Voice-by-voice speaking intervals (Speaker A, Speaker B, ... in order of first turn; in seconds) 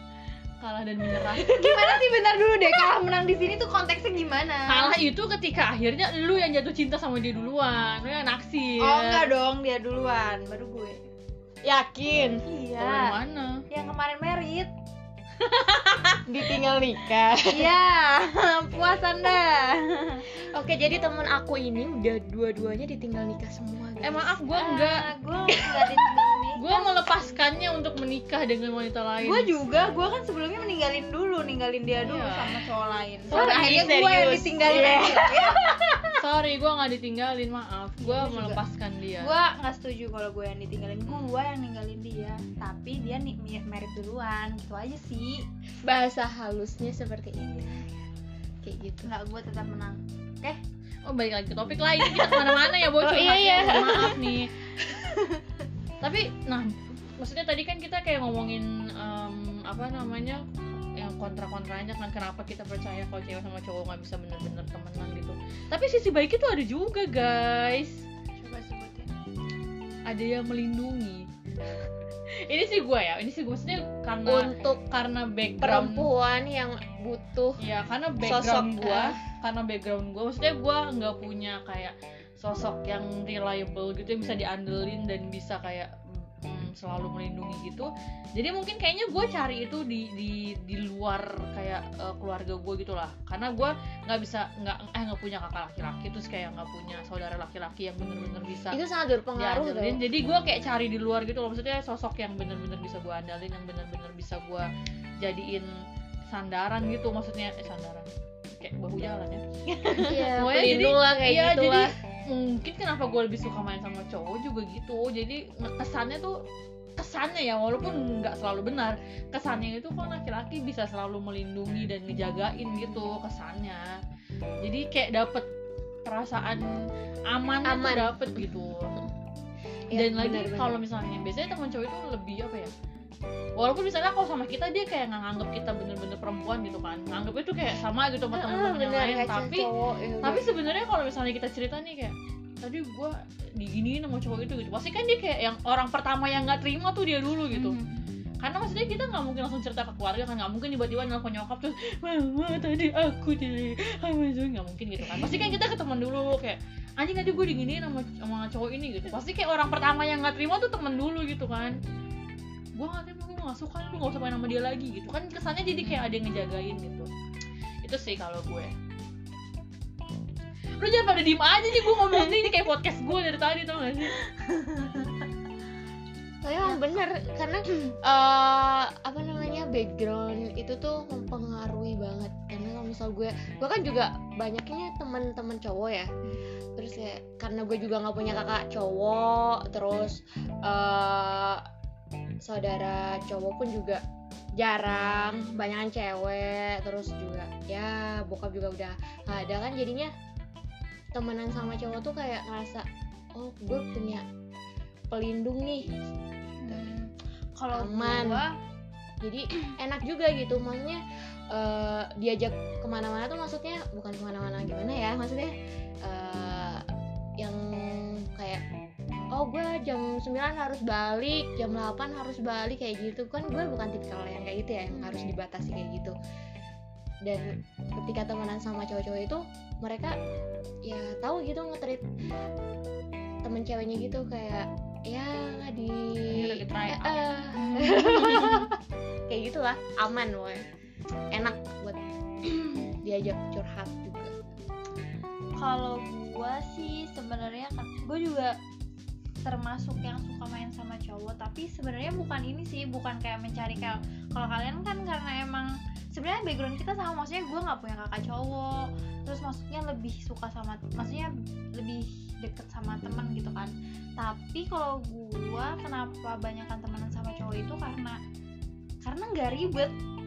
Speaker A: 0.6-1.9, 4.7-9.3, 12.8-13.6, 24.0-25.1, 26.6-29.5, 32.0-32.6, 33.3-34.0, 36.1-39.3, 41.1-41.3, 51.0-54.5, 56.0-68.0, 70.1-71.3, 72.4-76.1, 77.6-98.8, 99.4-104.7, 105.2-105.7, 106.3-108.0, 108.6-116.4, 117.0-123.9, 124.6-125.5, 126.0-128.9, 129.9-132.7, 133.6-139.7, 140.2-147.8, 148.4-161.8, 162.8-167.1, 167.8-168.7, 170.8-174.2, 236.3-237.2, 237.9-238.6
Speaker B: 1.4-5.0, 8.8-11.0, 12.5-13.1, 13.7-14.7, 15.7-16.2, 17.5-20.3, 24.5-27.4, 29.2-35.8, 38.0-38.6, 39.2-45.4, 47.4-47.9, 49.0-50.6, 55.2-55.4, 68.4-69.1, 147.5-148.0, 174.3-175.2, 206.6-208.5, 237.6-238.4, 245.6-248.6, 249.4-268.2, 269.0-269.9
Speaker C: 11.6-12.4, 16.2-17.7, 20.4-24.4, 33.3-36.1, 45.8-47.4, 48.6-49.1, 52.2-54.2, 74.2-74.8, 75.6-77.6, 78.2-79.2, 98.7-100.0, 110.0-111.9, 127.6-128.4, 129.9-130.8, 138.3-140.5, 176.4-186.1, 186.8-191.6, 192.4-194.0, 194.6-200.1, 201.1-204.2, 205.1-205.9, 206.7-206.9, 207.7-208.4, 209.2-216.8, 217.4-218.6, 219.3-226.1, 227.2-230.1, 230.8-232.0, 233.4-238.8, 239.3-240.6, 241.3-244.3